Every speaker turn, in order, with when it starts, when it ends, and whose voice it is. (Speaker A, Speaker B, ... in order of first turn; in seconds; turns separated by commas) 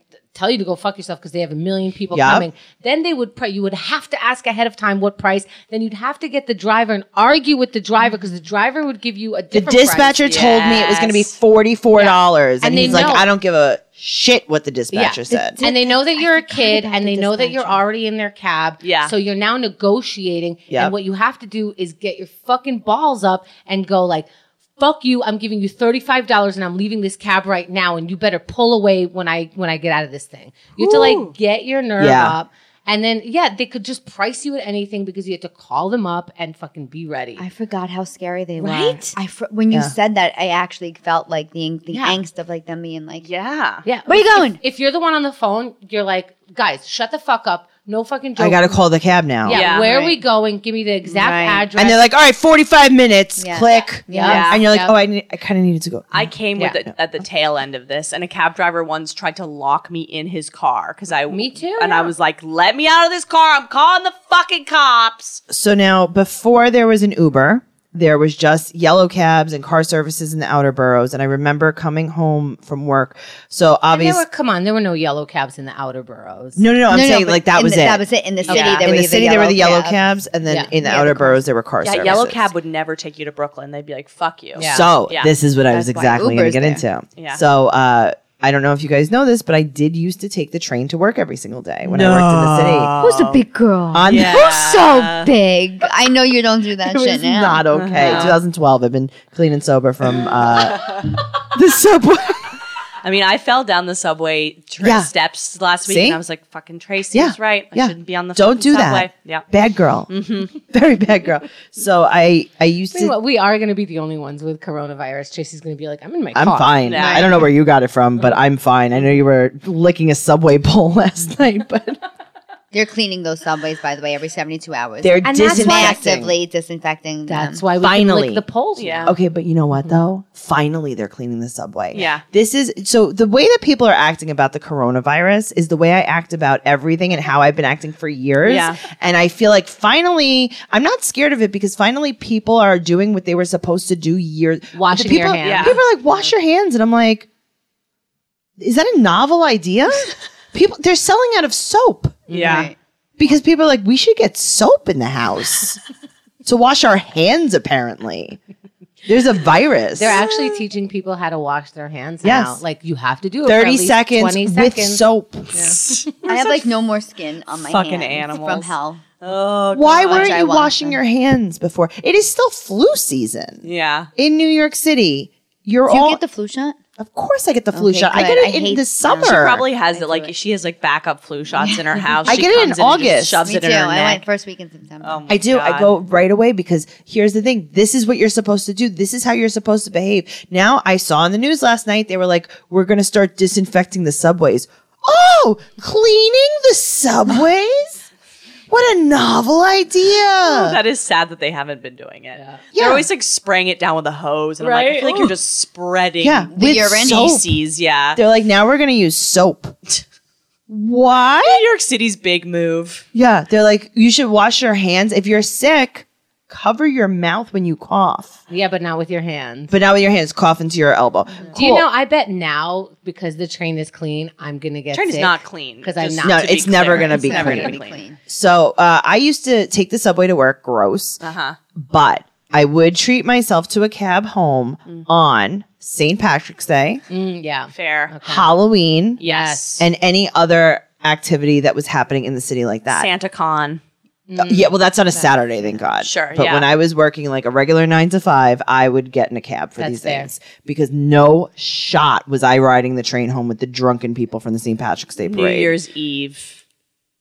Speaker A: 0.3-10.2, Speaker B: 2.1-2.5, Speaker B: 9.5-15.6, Speaker C: 10.2-11.3, Speaker A: 11.9-13.3, Speaker A: 14.9-37.5, Speaker D: 15.3-17.8, Speaker C: 18.8-19.1, Speaker C: 30.8-31.3, Speaker B: 32.0-32.4, Speaker D: 37.4-43.3, Speaker A: 38.6-39.1, Speaker A: 41.9-42.2, Speaker C: 43.2-43.9, Speaker A: 43.9-48.8, Speaker D: 44.1-44.6, Speaker B: 48.4-49.6, Speaker A: 49.4-52.1, Speaker C: 49.5-49.9, Speaker D: 49.8-50.2, Speaker D: 51.0-51.7, Speaker B: 51.8-56.3, Speaker D: 53.4-54.5, Speaker A: 54.1-55.0, Speaker C: 54.2-54.6, Speaker C: 56.1-65.4, Speaker A: 61.3-62.1, Speaker B: 65.5-74.2, Speaker A: 73.9-76.6, Speaker B: 76.6-82.5, Speaker D: 76.9-80.0, Speaker C: 78.5-78.9, Speaker A: 80.5-80.7, Speaker D: 80.8-81.4, Speaker C: 81.8-85.3, Speaker A: 84.6-84.9, Speaker B: 84.6-93.0, Speaker D: 85.7-86.8, Speaker C: 91.8-93.4, Speaker D: 93.0-98.3, Speaker B: 93.9-95.1, Speaker C: 94.1-95.3, Speaker B: 96.8-102.6, Speaker C: 97.7-98.4, Speaker C: 100.6-101.1, Speaker C: 103.0-109.5, Speaker B: 104.8-105.1, Speaker B: 105.8-106.2, Speaker B: 107.1-113.2, Speaker C: 110.1-110.5, Speaker A: 112.9-116.8, Speaker B: 116.3-122.0, Speaker C: 116.8-117.5, Speaker D: 117.0-117.3, Speaker D: 122.7-127.6, Speaker B: 125.0-126.3, Speaker A: 125.2-126.0, Speaker A: 127.3-129.2, Speaker B: 127.8-128.4, Speaker C: 128.8-129.1, Speaker B: 129.1-147.3, Speaker C: 131.9-132.2, Speaker C: 138.4-138.8, Speaker A: 144.7-145.8, Speaker C: 145.4-145.8, Speaker B: 148.6-152.3, Speaker A: 152.3-152.7, Speaker C: 152.3-152.7, Speaker D: 152.4-152.8, Speaker B: 153.2-155.8, Speaker B: 156.4-158.4, Speaker B: 159.1-160.3, Speaker A: 159.9-165.0, Speaker B: 162.2-162.6, Speaker B: 163.4-165.8, Speaker A: 165.6-165.9, Speaker C: 165.6-166.7, Speaker D: 166.3-169.0, Speaker C: 167.6-170.4, Speaker B: 169.7-176.2, Speaker D: 170.1-171.0, Speaker C: 173.6-174.1, Speaker D: 175.9-176.8, Speaker B: 177.0-179.7, Speaker D: 177.7-180.3, Speaker C: 179.2-184.2, Speaker D: 181.5-182.5, Speaker B: 182.3-183.4, Speaker D: 183.4-185.3, Speaker C: 185.0-185.9, Speaker B: 185.3-198.0, Speaker B: 198.7-200.8, Speaker C: 200.4-208.2, Speaker A: 202.4-202.6, Speaker B: 202.7-203.1, Speaker A: 204.6-205.3, Speaker B: 206.2-207.5, Speaker D: 206.6-207.4, Speaker B: 208.2-209.8, Speaker B: 210.7-211.6, Speaker C: 211.4-213.1, Speaker B: 213.1-218.4, Speaker A: 218.5-219.7, Speaker B: 219.7-221.9, Speaker A: 221.5-227.7, Speaker C: 224.9-228.0, Speaker B: 226.2-231.2, Speaker D: 227.0-228.2, Speaker C: 231.2-231.6, Speaker B: 231.8-237.0, Speaker A: 237.1-238.5, Speaker C: 237.7-238.1, Speaker B: 238.2-239.2, Speaker C: 239.2-239.8, Speaker A: 239.2-239.8, Speaker B: 239.8-243.1, Speaker C: 242.9-243.8, Speaker A: 244.3-245.3, Speaker B: 244.4-255.8, Speaker C: 246.0-246.7, Speaker A: 249.8-250.3, Speaker C: 255.2-256.6